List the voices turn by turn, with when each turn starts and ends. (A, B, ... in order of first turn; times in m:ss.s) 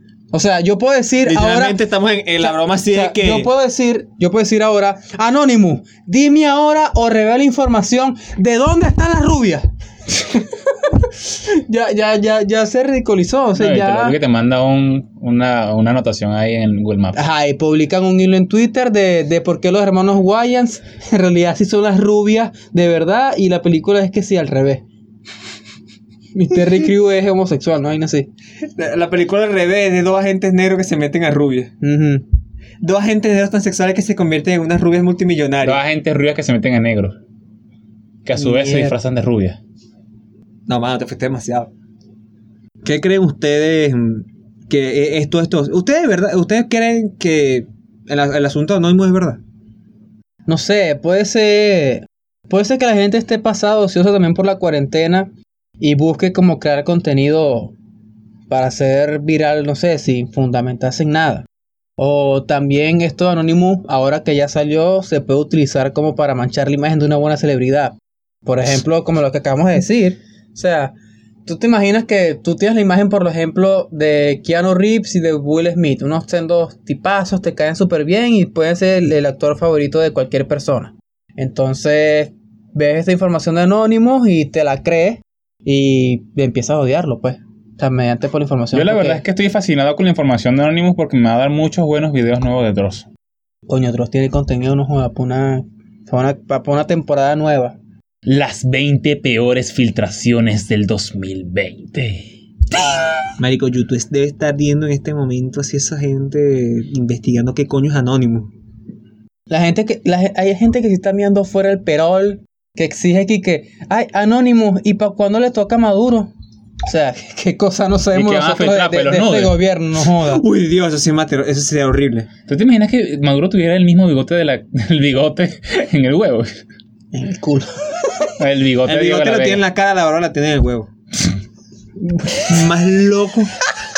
0:00.3-0:01.8 A
0:01.2-0:03.5 B
0:02.4-0:14.2 A
0:13.6-0:17.2 C
0:17.2-0:24.8 A
0:26.3-0:28.3 A
0:28.8-0:31.7 B
0:31.8-0:32.2 A
0:32.8-0:35.8 B
0:35.6-0:37.2 C
0:38.2-0:39.6 C
0:38.4-0:38.9 A
0:40.7-0:41.7 B
0:42.8-0:49.4 B
0:50.5-0:57.7 A
0:58.5-1:01.4 A
1:02.0-1:08.0 A
1:08.5-1:11.0 A
1:11.5-1:29.2 A
1:28.7-1:33.1 C
1:33.7-1:37.8 A
1:38.3-1:43.0 C
1:43.4-1:48.5 B
1:49.5-1:56.3 A
1:56.9-2:00.4 A
1:58.1-1:59.6 C
2:00.2-2:02.3 B
2:02.5-2:06.6 C
2:07.1-2:08.3 A
2:08.4-2:09.6 C
2:08.8-2:10.9 B
2:12.2-2:12.6 A
2:12.4-2:13.5 B